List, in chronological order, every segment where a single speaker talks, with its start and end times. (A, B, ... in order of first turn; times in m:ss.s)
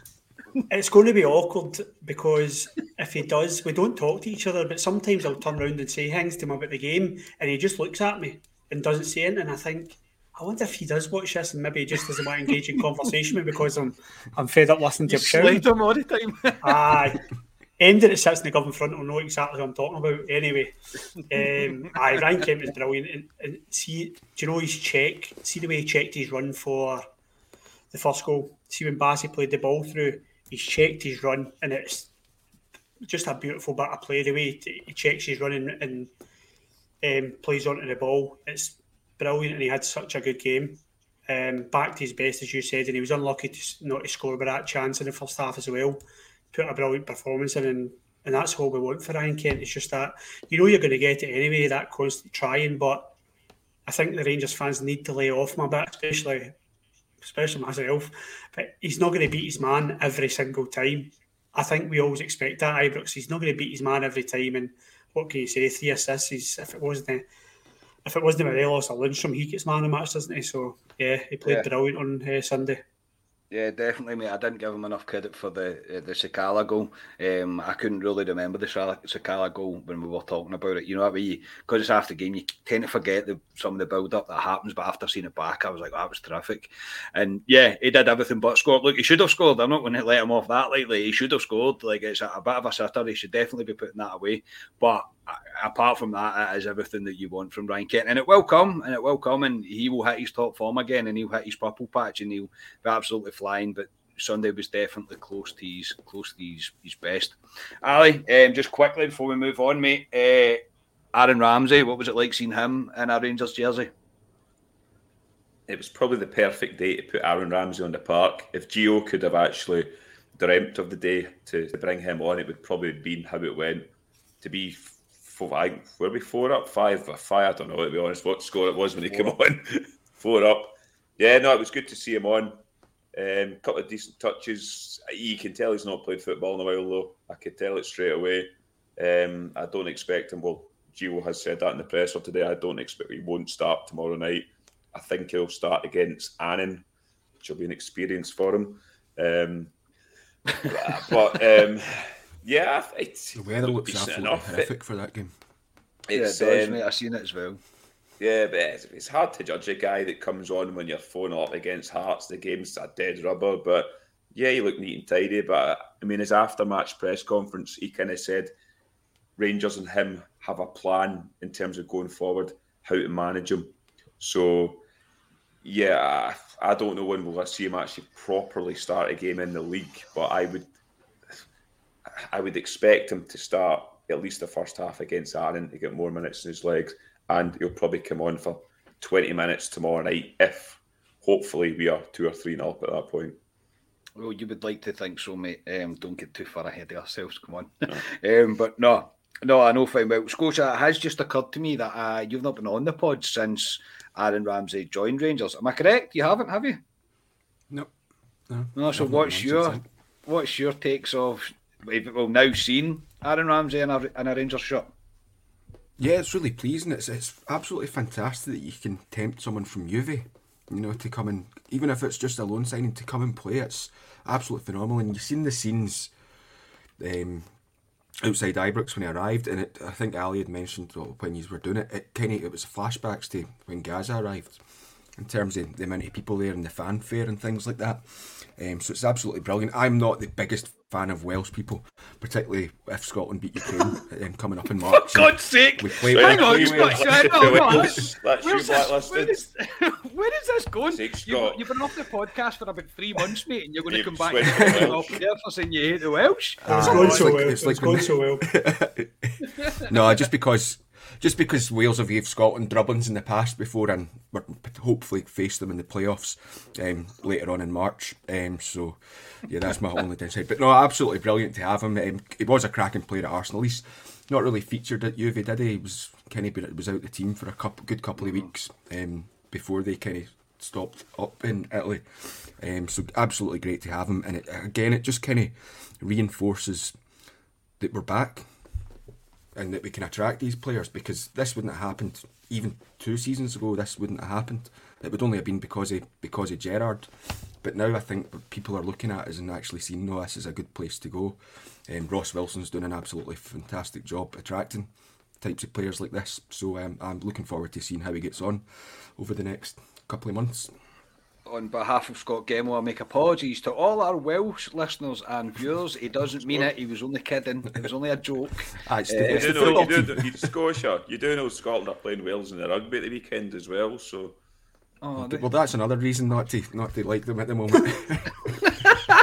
0:00.7-0:15.7 A
0:15.1-0:17.0 B
0:16.6-0:17.2 A
0:17.8-0:20.8 A
0:21.3-0:27.0 A
0:27.9-0:32.1 A
0:33.0-0:36.1 A
0:37.0-0:53.1 A
0:53.9-0:56.5 A
0:57.2-1:07.2 A
1:08.1-1:12.8 A
1:13.5-1:50.6 B
1:51.1-1:53.9 B
1:55.7-2:03.9 C
2:04.4-2:12.6 C
2:13.2-2:26.8 C
2:27.4-2:29.7 C
2:30.6-2:34.7 C
2:33.4-2:35.3 D
2:36.1-2:36.8 C
2:36.1-2:37.6 B
2:38.2-2:48.5 C
2:49.4-2:54.8 C
2:55.6-3:00.7 C
3:02.3-3:13.4 C
3:14.2-3:26.8 B
3:28.5-3:29.8 D
3:28.8-3:34.9 B
3:36.0-3:46.1 D
3:47.0-3:47.5 D
3:48.2-3:54.6 D
3:55.2-4:08.0 D
4:04.9-4:17.3 B
4:06.1-4:09.4 C
4:10.9-4:11.6 C
4:13.9-4:15.2 C
4:14.5-4:15.0 D
4:16.6-4:47.0 D
4:16.8-4:18.5 A
4:19.6-4:19.9 B
4:47.8-4:48.5 D
4:49.6-5:04.9 D
5:05.4-5:08.6 D
5:09.2-5:10.7 D
5:11.5-5:19.9 B
5:18.8-5:20.5 D
5:19.3-5:24.4 C
5:25.0-5:25.5 B
5:25.2-5:28.5 D